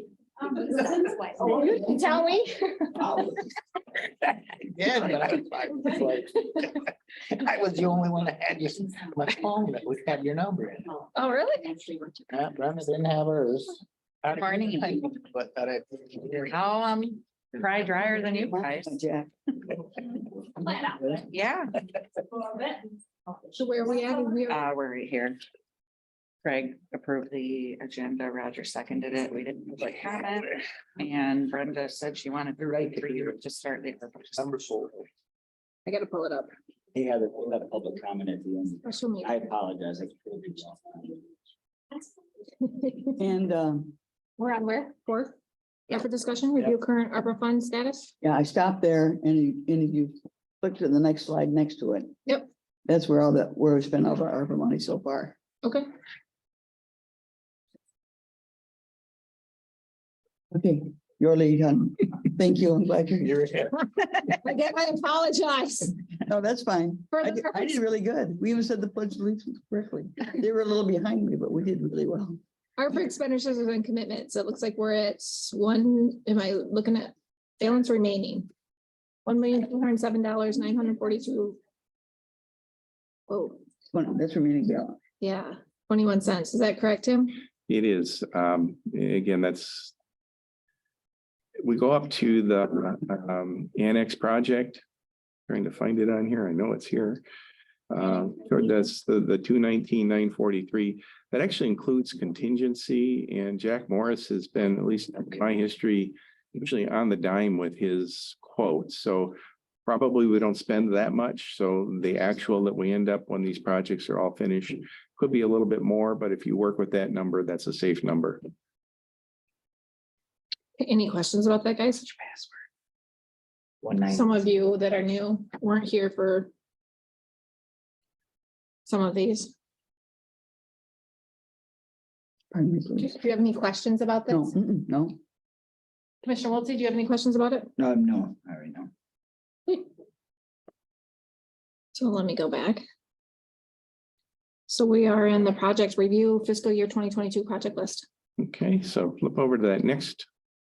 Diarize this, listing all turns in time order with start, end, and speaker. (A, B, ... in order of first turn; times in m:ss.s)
0:01.4-0:03.2 A
0:04.7-0:06.8 B
0:07.3-0:10.9 B
0:11.2-0:11.8 A
0:12.3-0:16.4 B
0:14.3-0:15.2 C
0:16.4-0:19.0 C
0:18.7-0:19.3 D
0:21.2-0:21.7 C
0:23.5-0:24.6 A
0:24.5-0:25.4 C
0:26.4-0:34.6 C
0:34.4-0:35.0 B
0:35.9-0:36.5 A
0:36.9-0:41.1 E
0:38.8-0:39.4 A
0:42.6-0:43.2 A
0:43.2-0:44.0 D
0:44.4-0:45.4 A
0:45.9-0:48.1 A
0:48.2-0:52.2 D
0:52.9-0:55.4 D
1:00.5-1:03.4 D
1:03.2-1:03.7 B
1:04.4-1:05.9 A
1:06.2-1:12.4 D
1:07.1-1:07.8 A
1:12.8-1:18.5 A
1:19.3-1:21.6 A
1:23.3-1:23.6 A
1:23.9-1:25.0 D
1:25.2-1:27.4 A
1:27.7-1:29.9 F
1:31.6-1:34.8 F
1:35.5-1:37.2 F
1:37.9-1:58.4 F
2:00.8-2:02.1 A
2:04.1-2:06.5 A
2:08.9-2:09.5 A
2:12.5-2:13.2 D
2:13.0-2:14.5 A
2:14.3-2:15.2 D
2:16.2-2:17.7 A
2:17.9-2:18.9 E
2:22.0-2:22.8 A
2:24.7-2:28.1 A
2:28.4-2:30.3 F